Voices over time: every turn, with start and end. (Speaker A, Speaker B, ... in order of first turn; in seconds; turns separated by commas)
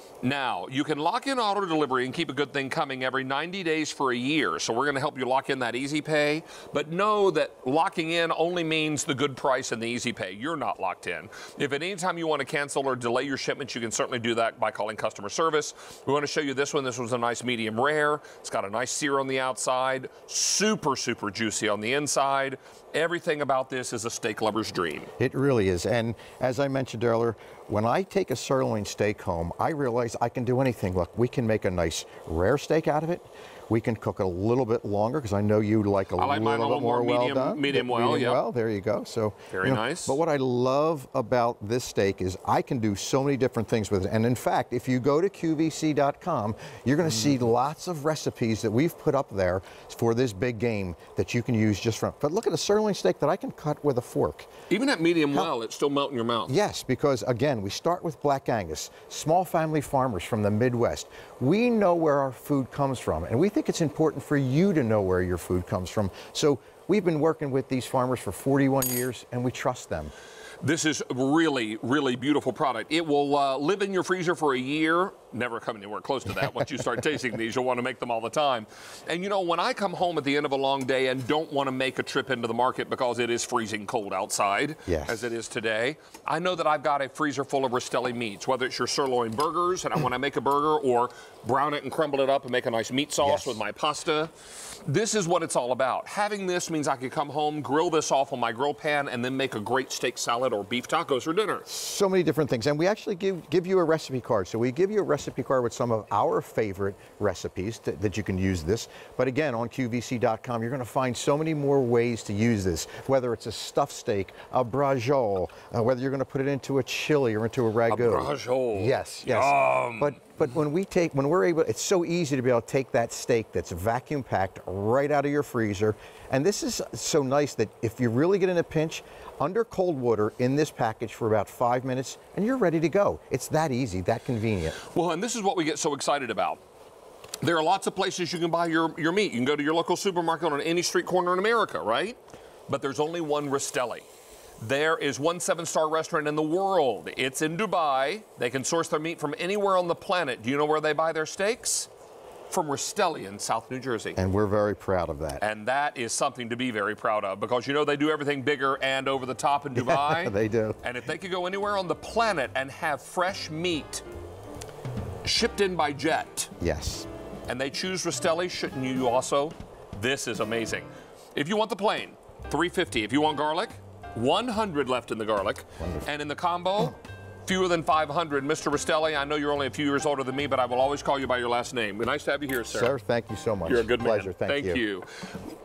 Speaker A: 0.2-25.1, Speaker B: 25.2-54.5, Speaker A: 36.2-38.4, Speaker A: 39.5-40.2, Speaker A: 54.7-56.6, Speaker B: 56.5-70.1, Speaker A: 70.6-94.3, Speaker B: 84.9-85.3, Speaker B: 93.2-93.6, Speaker A: 94.8-101.7, Speaker B: 101.7-134.8, Speaker A: 117.9-120.2, Speaker A: 134.8-136.6, Speaker A: 137.4-144.1, Speaker A: 144.6-151.9, Speaker A: 152.5-154.2, Speaker B: 154.2-155.4, Speaker A: 155.4-164.0, Speaker B: 159.7-160.8, Speaker A: 165.2-166.5, Speaker B: 166.6-167.1, Speaker A: 167.5-182.9, Speaker B: 175.8-176.1, Speaker B: 182.7-184.8, Speaker A: 183.7-185.1